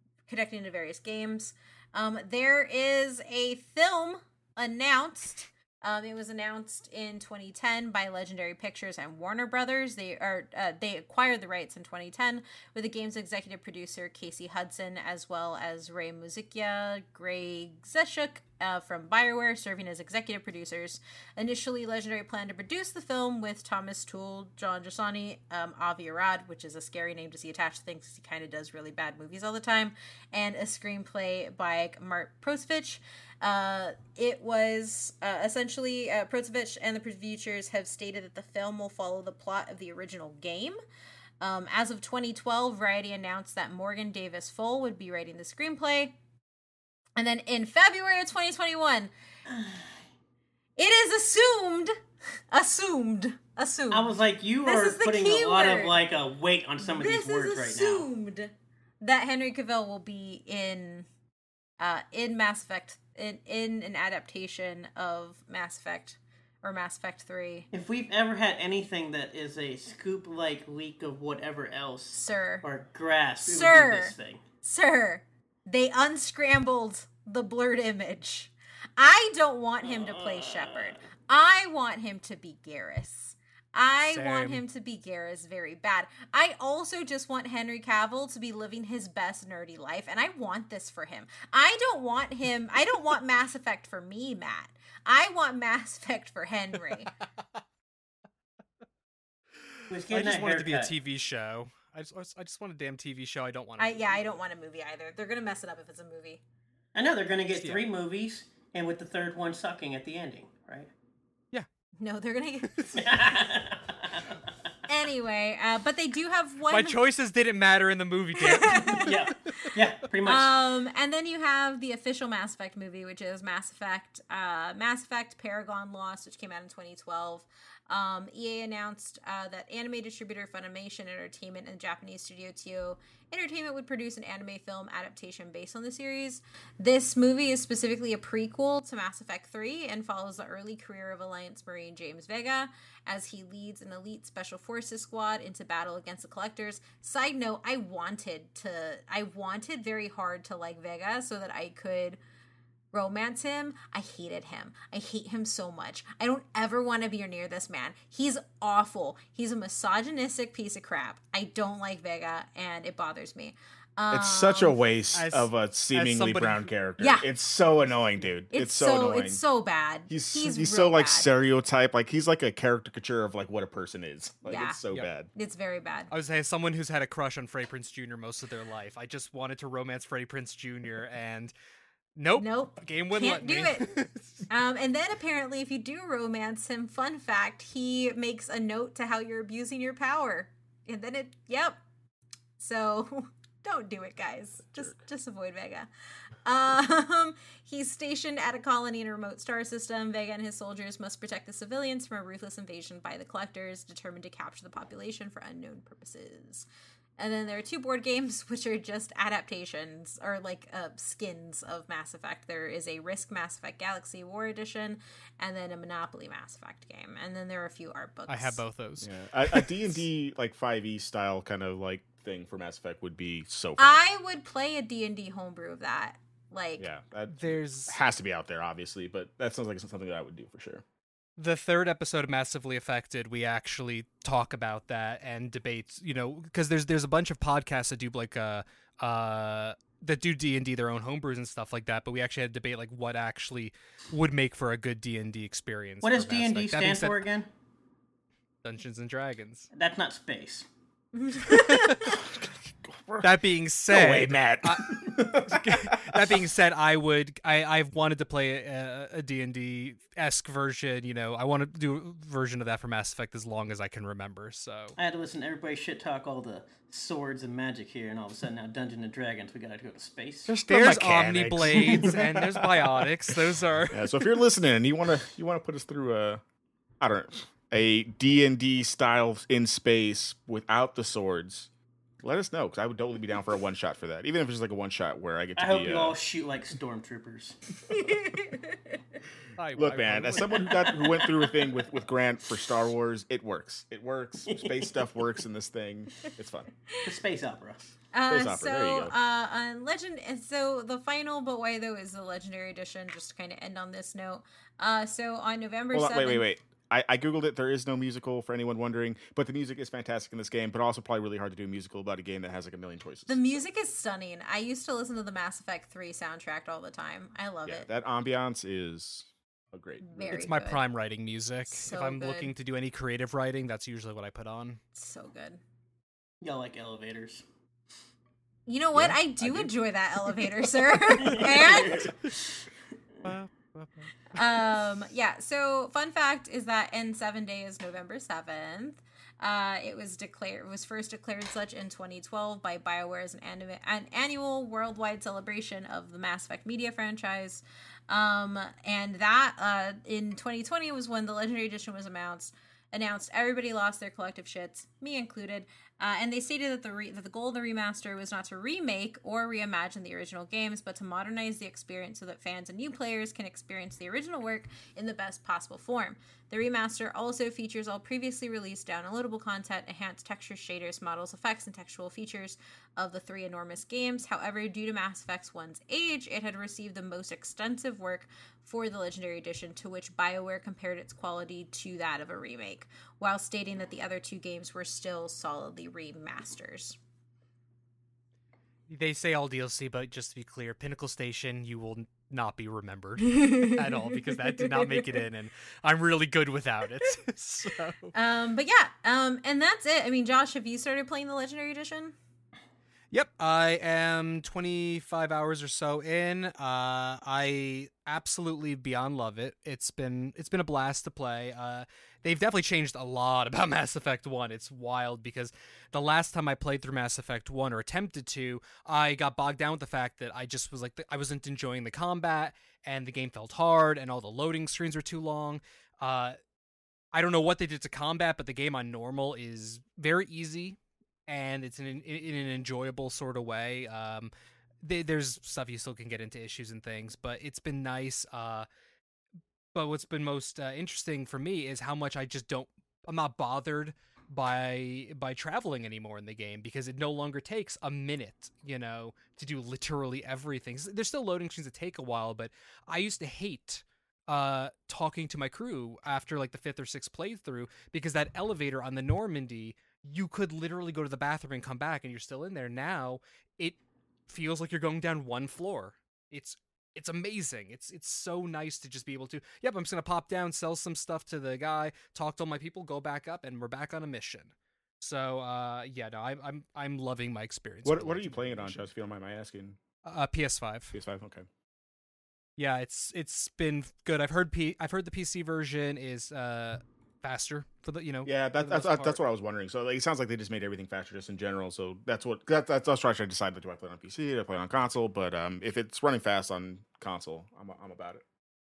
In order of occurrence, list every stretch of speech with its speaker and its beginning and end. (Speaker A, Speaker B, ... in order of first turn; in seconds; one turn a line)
Speaker A: 0.3-40.8
Speaker A: 41.4-46.2
Speaker A: 47.2-49.1
Speaker B: 49.5-49.9
Speaker A: 50.8-52.0
Speaker A: 52.5-56.0
Speaker B: 53.9-58.1
Speaker A: 56.8-61.1
Speaker A: 61.8-67.7
Speaker B: 67.7-74.4
Speaker A: 72.1-72.7
Speaker A: 73.4-97.1
Speaker B: 79.8-81.0
Speaker C: 84.1-84.6
Speaker C: 99.8-104.2
Speaker B: 99.9-100.9
Speaker A: 103.8-106.4
Speaker B: 107.0-110.9
Speaker C: 107.5-107.8
Speaker A: 112.0-113.0
Speaker B: 113.0-114.4
Speaker A: 114.9-117.0
Speaker C: 116.7-119.7
Speaker A: 118.4-119.1
Speaker B: 118.9-120.6
Speaker A: 120.2-152.2
Speaker A: 152.9-164.8
Speaker D: 164.1-169.4
Speaker C: 165.1-166.7
Speaker A: 167.0-167.3
Speaker A: 168.5-171.3
Speaker D: 170.1-175.3
Speaker A: 174.5-174.8
Speaker A: 175.3-176.1
Speaker C: 176.1-181.5
Speaker C: 182.2-184.5
Speaker A: 182.4-183.9
Speaker A: 184.5-191.8
Speaker A: 192.6-195.9
Speaker D: 194.6-195.0
Speaker A: 196.4-206.7
Speaker A: 207.2-218.6
Speaker C: 218.3-220.0
Speaker D: 219.0-224.0
Speaker A: 223.8-226.9
Speaker D: 226.8-230.8
Speaker C: 227.3-228.0
Speaker C: 231.4-247.2
Speaker B: 246.0-247.5
Speaker C: 248.6-249.7
Speaker B: 249.7-250.7
Speaker A: 251.1-252.2
Speaker C: 251.5-252.2
Speaker D: 252.0-253.4
Speaker C: 253.2-265.0
Speaker D: 253.9-256.4
Speaker B: 265.0-270.5
Speaker D: 270.5-273.3
Speaker C: 270.7-274.1
Speaker B: 271.7-272.1
Speaker D: 273.9-276.4
Speaker D: 277.0-281.7
Speaker D: 282.2-286.1
Speaker B: 285.6-287.6
Speaker A: 287.9-289.0
Speaker C: 289.6-290.9
Speaker D: 289.7-296.7
Speaker B: 290.6-291.5
Speaker B: 294.5-295.1
Speaker B: 297.0-297.9
Speaker A: 298.1-306.4
Speaker D: 298.3-299.1
Speaker D: 305.9-313.6
Speaker A: 313.3-317.9
Speaker D: 317.7-320.4
Speaker A: 320.0-320.8
Speaker C: 320.2-324.8
Speaker A: 321.7-322.5
Speaker A: 324.9-325.6
Speaker B: 326.4-327.4
Speaker A: 328.7-332.1
Speaker D: 328.9-329.7
Speaker B: 331.2-332.6
Speaker C: 331.2-331.9
Speaker C: 333.2-334.4
Speaker A: 334.3-387.0
Speaker C: 388.9-398.1
Speaker A: 393.2-395.1
Speaker A: 398.1-402.2
Speaker C: 403.1-426.4
Speaker C: 427.1-434.3
Speaker C: 434.8-438.7
Speaker C: 439.7-463.8
Speaker C: 464.3-478.9
Speaker D: 477.8-479.8
Speaker C: 480.1-480.9
Speaker D: 480.9-481.5
Speaker C: 482.6-489.2
Speaker D: 488.2-498.2